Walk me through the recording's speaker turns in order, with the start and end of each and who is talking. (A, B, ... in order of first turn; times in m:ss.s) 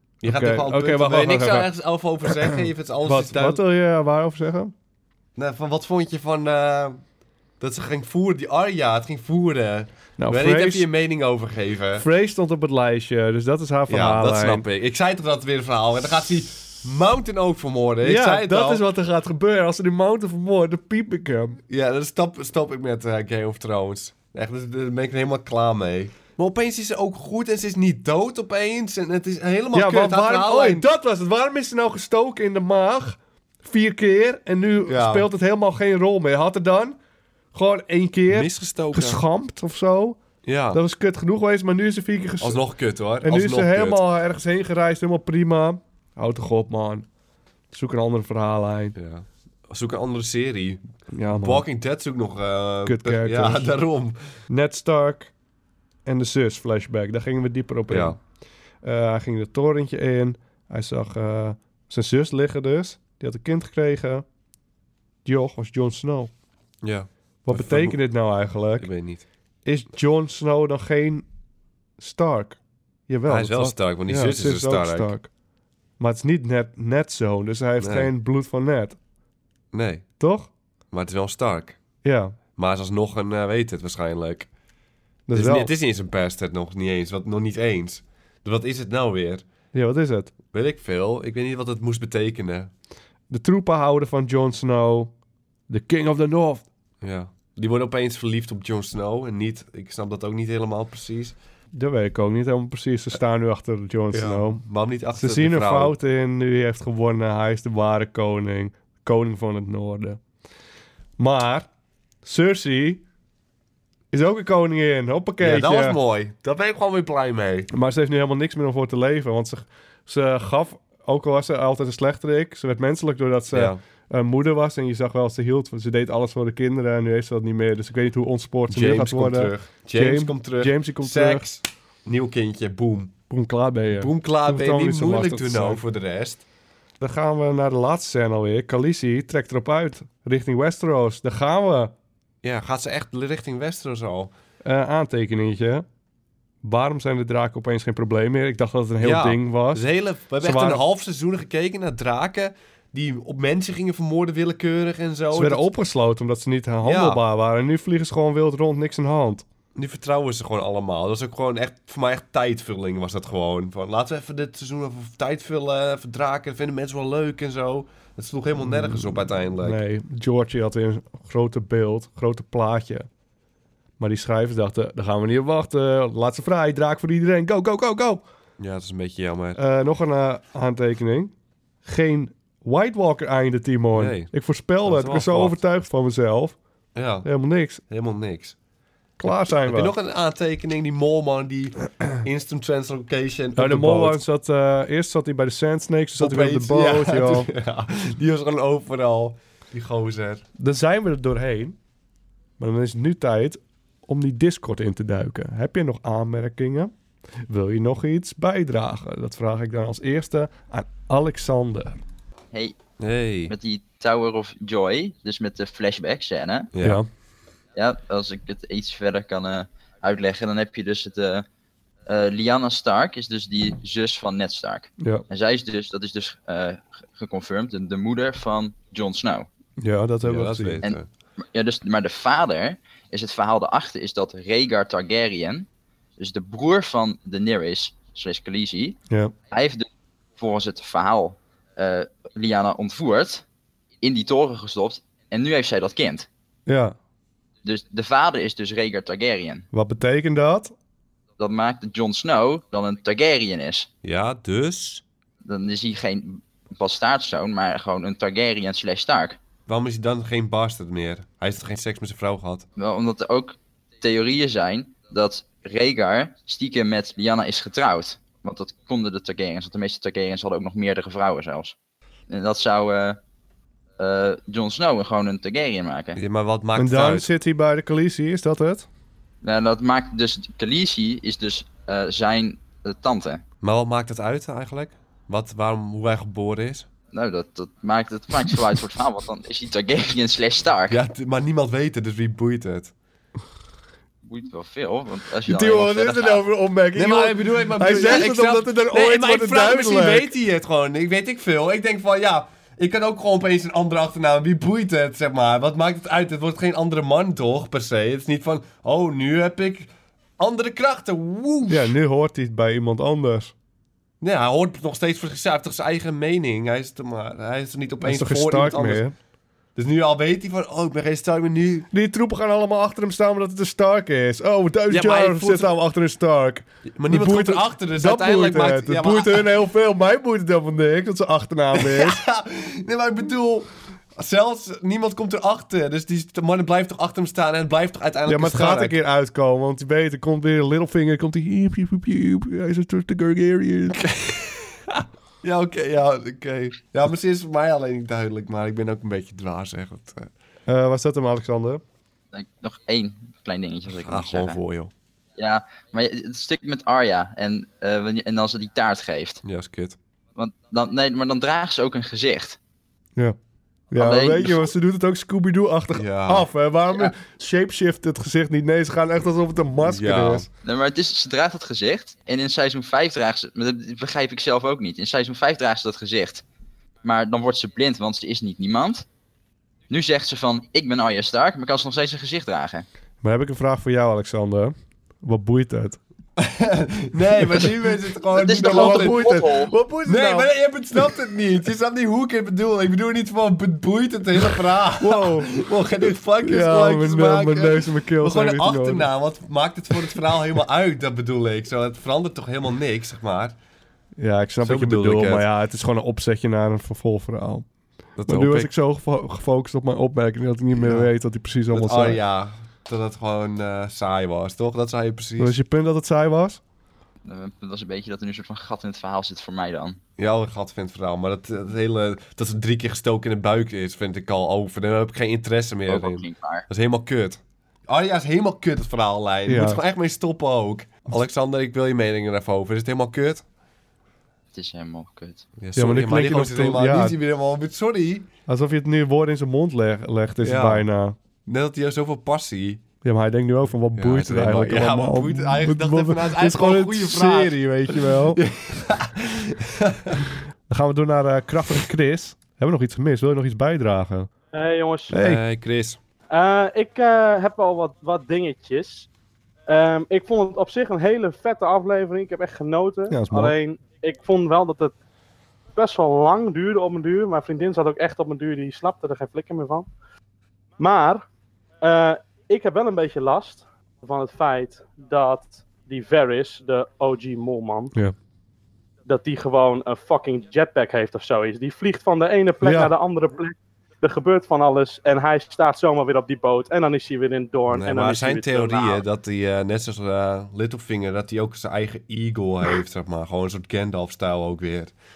0:00.2-0:03.6 A
0:00.2-0:01.7 B
0:03.0-0:04.7 B
0:05.4-0:07.0 A
0:07.6-0:12.0 A
0:10.2-0:10.8 B
0:12.0-0:14.6 B
0:13.9-0:18.8 A
0:18.0-0:21.6 B
0:21.7-0:30.8 A
0:29.7-0:37.0 B
0:34.9-0:35.3 A
0:37.5-0:40.2 B
0:38.3-0:39.2 A
0:40.4-0:40.8 A
0:40.7-0:42.6 B
0:42.4-0:44.0 A
0:43.2-0:47.0 B
0:47.7-0:48.9 B
0:48.9-0:50.8 A
0:51.1-0:51.6 B
0:51.3-0:54.2 A
0:52.8-0:53.6 B
0:54.5-0:55.3 B
0:56.0-0:58.2 B
0:57.9-0:58.2 A
0:58.8-1:04.2 B
1:05.2-1:06.3 B
1:06.8-1:08.0 A
1:07.4-1:08.9 B
1:08.8-1:09.2 A
1:09.6-1:11.2 B
1:12.0-1:15.3 B
1:13.3-1:15.1 A
1:16.0-1:19.0 B
1:17.8-1:18.1 A
1:19.7-1:20.1 A
1:20.2-1:20.5 B
1:20.9-1:21.8 A
1:22.0-1:22.4 B
1:22.6-1:24.5 A
1:25.3-1:25.7 B
1:25.3-1:29.4 A
1:29.7-1:30.3 B
1:30.5-1:32.7 A
1:33.3-1:35.1 B
1:35.7-1:36.6 B
1:37.0-1:41.4 A
1:41.7-1:44.6 B
1:44.1-1:46.0 A
1:45.1-1:50.2 B
1:51.2-1:51.7 B
1:52.2-1:53.0 B
1:54.1-1:56.0 B
1:55.4-1:57.7 A
1:57.7-2:11.4 B
2:03.5-2:03.8 A
2:08.7-2:13.1 A
2:13.3-2:15.8 B
2:14.0-2:16.4 A
2:17.0-2:21.9 B
2:22.4-2:24.3 A
2:24.6-2:25.8 B
2:26.6-2:29.8 B
2:29.0-2:35.7 A
2:30.4-2:30.8 B
2:35.3-2:39.4 B
2:36.8-2:37.2 A
2:39.7-2:49.8 A
2:48.6-2:53.1 B
2:54.0-2:58.2 B
2:58.6-2:59.6 A
2:59.6-3:01.3 B
3:01.8-3:06.6 B
3:03.9-3:04.3 A
3:04.8-3:05.6 A
3:06.9-3:07.3 A
3:07.2-3:07.8 B
3:07.9-3:08.6 A
3:09.2-3:09.9 B
3:09.6-3:14.2 A
3:13.6-3:17.5 B
3:16.2-3:20.4 A
3:20.6-3:21.8 B
3:22.6-3:26.9 B
3:27.5-3:32.0 B
3:32.5-3:32.8 C
3:33.0-3:33.5 A
3:33.5-3:36.7 C
3:36.7-3:37.0 A
3:36.8-3:37.1 B
3:37.8-3:41.4 C
3:42.0-3:49.5 C
3:49.8-3:50.8 B
3:50.2-3:51.1 A
3:51.5-3:55.7 C
3:56.2-3:59.0 C
3:59.5-3:59.9 C
4:00.4-4:03.4 C
4:04.0-4:06.3 C
4:06.7-4:07.0 B
4:07.6-4:09.7 C
4:09.7-4:10.7 B
4:11.4-4:13.9 C
4:14.0-4:15.0 A
4:15.4-4:19.4 C
4:19.6-4:22.6 A
4:22.8-4:31.8 C
4:32.3-4:33.2 C
4:34.0-4:36.2 C
4:36.1-4:37.3 A
4:36.8-4:38.9 B
4:39.4-4:43.4 C
4:43.6-4:46.9 A
4:47.1-4:51.0 C
4:50.9-4:52.9 A
4:54.2-4:56.4 C
4:55.5-5:00.3 B
4:56.9-5:11.9 A
5:11.7-5:13.5 B
5:14.2-5:19.0 A
5:18.0-5:19.1 B
5:19.8-5:21.9 A
5:21.9-5:32.2 B
5:24.9-5:25.7 A
5:26.9-5:29.5 A
5:31.8-5:39.0 A
5:38.3-5:44.0 B
5:44.0-5:50.3 A
5:50.7-5:51.8 B
5:52.3-5:54.6 C
5:53.9-5:54.9 A
5:55.4-5:59.4 C
5:59.4-6:00.0 A
6:00.4-6:02.6 C
6:03.9-6:10.5 B
6:04.0-6:04.6 C
6:05.9-6:06.5 A
6:09.8-6:10.5 A
6:10.6-6:16.4 C
6:17.0-6:19.0 C
6:19.9-6:22.9 C
6:23.2-6:26.0 B
6:26.4-6:29.4 A
6:28.4-6:29.7 C
6:28.6-6:30.5 B
6:30.0-6:43.6 A
6:35.0-6:35.6 B
6:36.4-6:39.1 B
6:44.2-6:47.6 B
6:44.6-6:45.5 A
6:48.2-6:48.7 A
6:48.2-6:52.2 B
6:50.8-6:51.1 A
6:51.7-6:55.5 A
6:55.4-6:56.6 B
6:57.2-7:00.0 C
7:00.2-7:13.4 A
7:05.9-7:06.6 C
7:09.5-7:09.8 B
7:14.5-7:15.4 C
7:15.6-7:18.3 A
7:15.8-7:17.2 B
7:18.5-7:21.2 B
7:20.4-7:20.8 A
7:21.4-7:22.8 A
7:23.0-7:28.4 B
7:23.9-7:30.2 A
7:30.7-7:34.3 B
7:34.5-7:35.1 D
7:35.1-7:35.4 B
7:35.1-7:36.0 A
7:36.3-7:39.1 D
7:39.7-7:44.9 D
7:43.1-7:43.5 B
7:45.8-7:49.9 D
7:50.8-7:51.2 D
7:51.8-7:57.9 D
7:59.0-8:09.0 D
8:02.6-8:02.9 B
8:07.7-8:14.9 A